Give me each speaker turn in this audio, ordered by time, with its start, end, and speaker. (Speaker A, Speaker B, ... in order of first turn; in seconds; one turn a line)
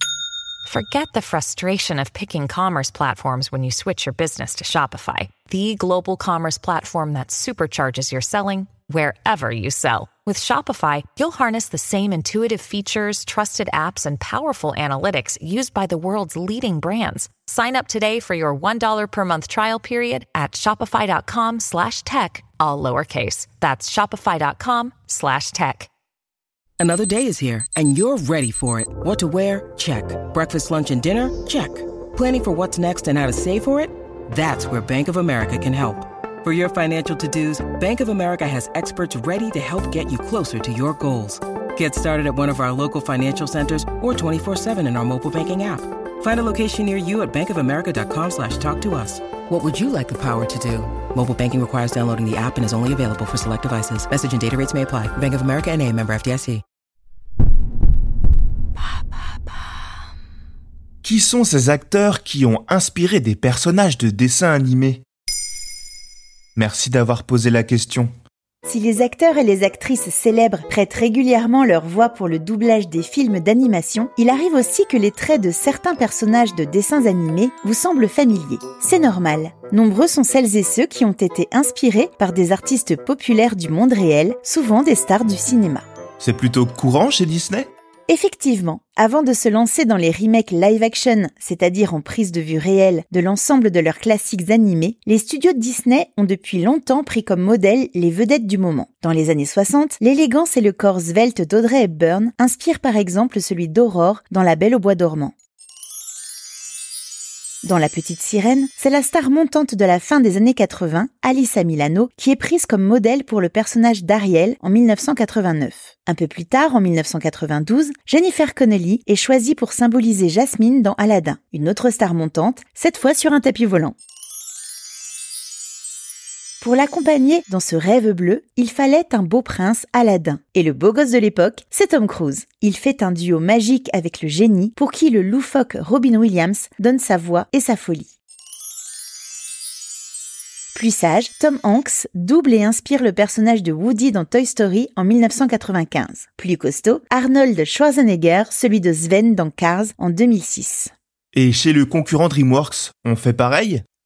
Speaker A: 0.6-25.9
Speaker B: 26.8-56.6
Speaker C: 61.0-65.0
Speaker C: 66.5-68.1
Speaker D: 68.6-85.8
Speaker C: 86.2-87.7
Speaker D: 88.1-105.3
Speaker D: 107.6-123.9
Speaker D: 126.6-138.1
Speaker D: 140.7-150.9
Speaker C: 151.3-153.8